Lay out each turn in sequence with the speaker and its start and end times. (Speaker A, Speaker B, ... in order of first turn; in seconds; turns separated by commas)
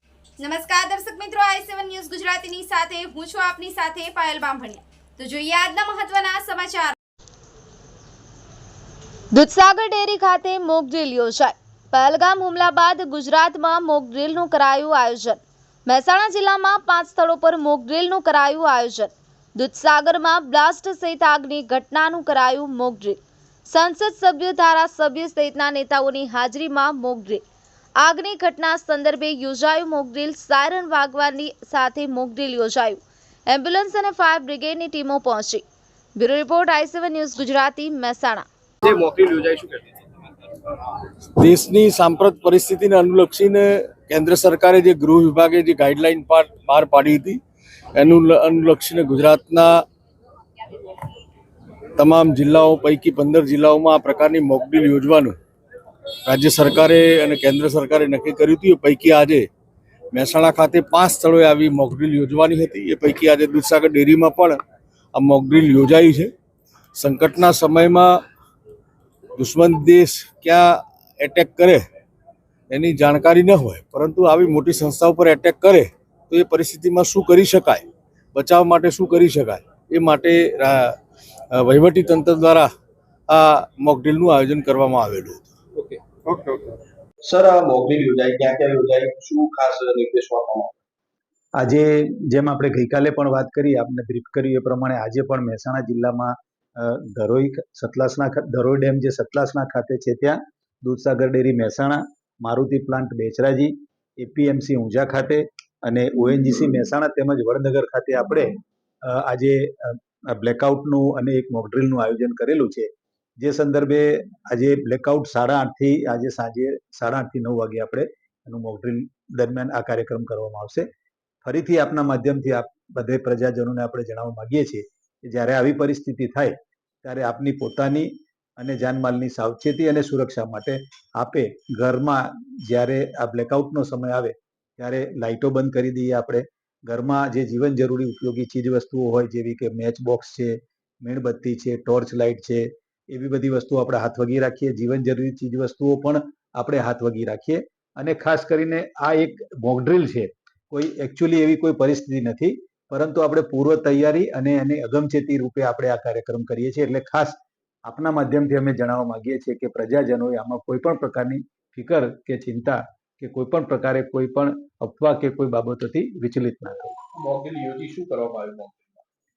Speaker A: 0.4-7.0, Speaker B: 9.3-27.4, Speaker B: 28.0-35.6, Speaker B: 36.2-38.5, Speaker C: 38.8-39.8, Speaker D: 41.4-47.4, Speaker D: 48.0-49.9, Speaker D: 52.0-55.4, Speaker D: 56.3-59.5, Speaker D: 60.1-64.6, Speaker D: 65.1-66.3, Speaker D: 67.0-68.2, Speaker D: 69.4-71.8, Speaker D: 72.7-81.0, Speaker D: 81.5-82.7, Speaker D: 83.3-85.5, Speaker C: 85.8-90.8, Speaker E: 91.6-108.5, Speaker E: 109.0-112.9, Speaker E: 113.4-120.8, Speaker E: 121.4-167.0, Speaker C: 167.2-169.0